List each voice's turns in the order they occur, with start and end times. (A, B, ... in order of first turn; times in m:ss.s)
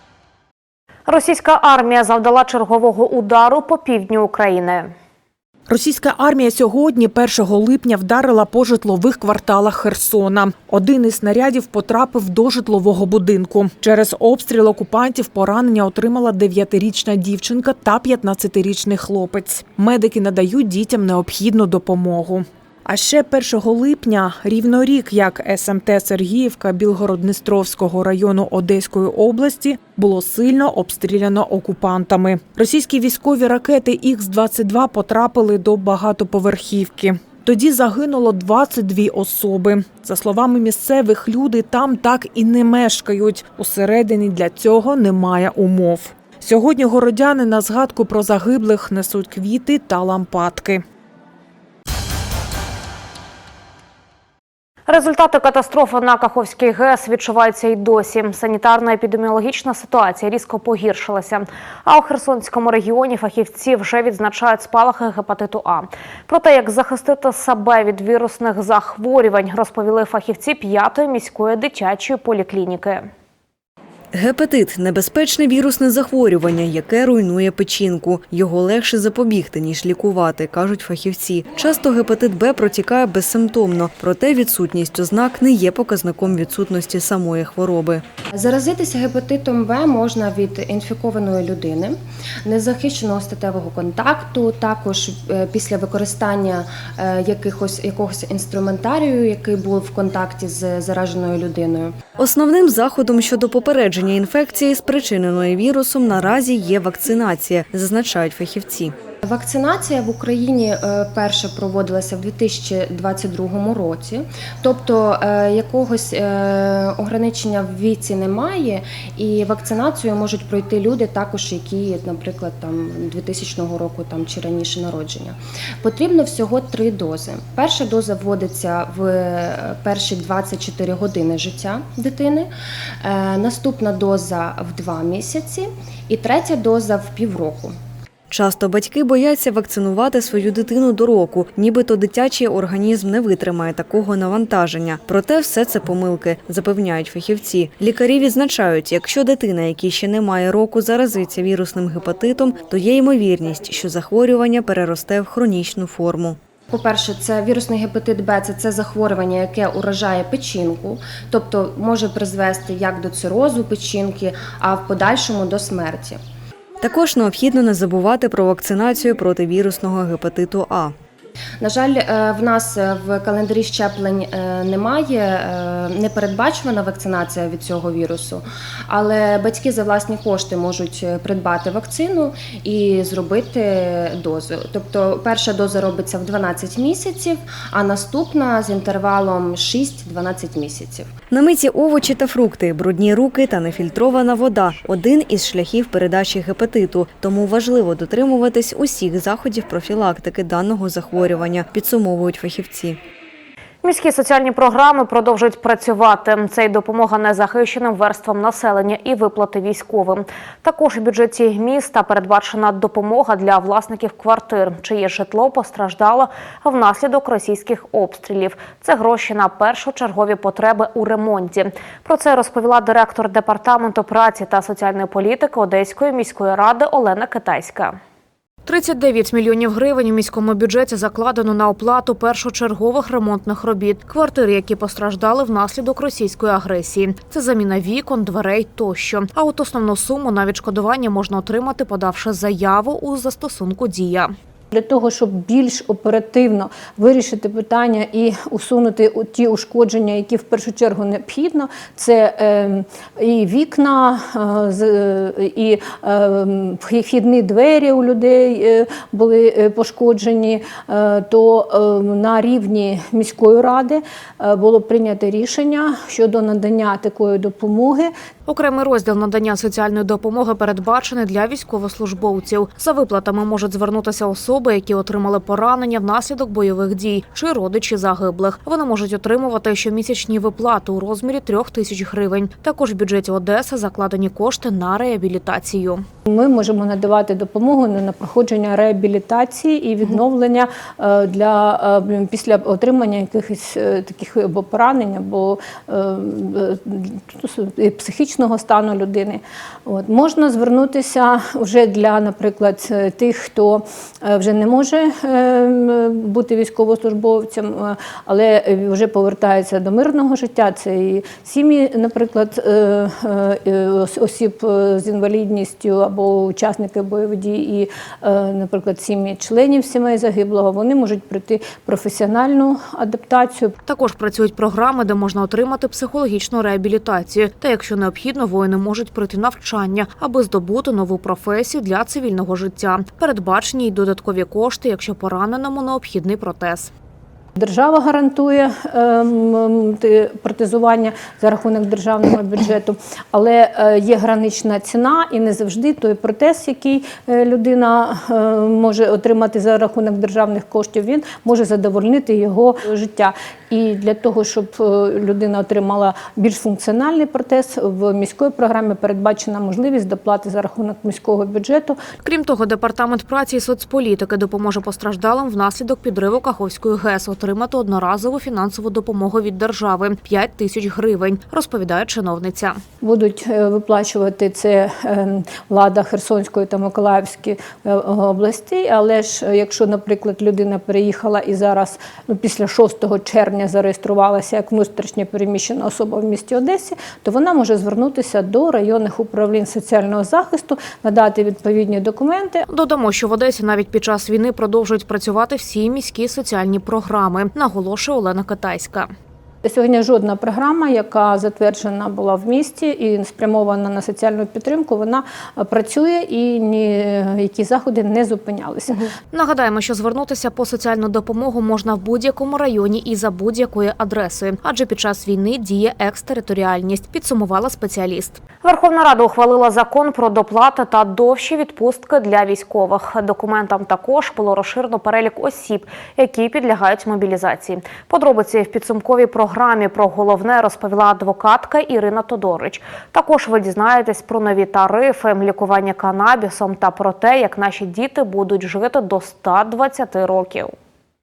0:01.1-0:04.9 A
0:06.0-0:50.8 B
0:54.9-1:13.1 A
1:14.1-1:28.0 C
1:28.3-1:41.9 D
1:42.2-1:48.9 C
1:49.2-2:12.5 D
2:13.0-2:17.8 D
2:18.3-2:36.4 C
2:36.7-2:46.2 D
2:46.8-2:50.9 C
2:51.6-3:11.1 D
3:11.3-3:23.0 C
3:23.8-3:47.9 A
3:48.6-4:04.3 A
4:04.7-4:28.1 E
4:28.4-4:46.0 A
4:46.3-5:23.7 E
5:23.8-5:36.9 A
5:37.6-6:02.0 E
6:02.2-6:12.8 A
6:13.0-6:32.6 E
6:32.7-6:39.1 A
6:39.6-6:49.1 E
6:49.3-7:20.7 A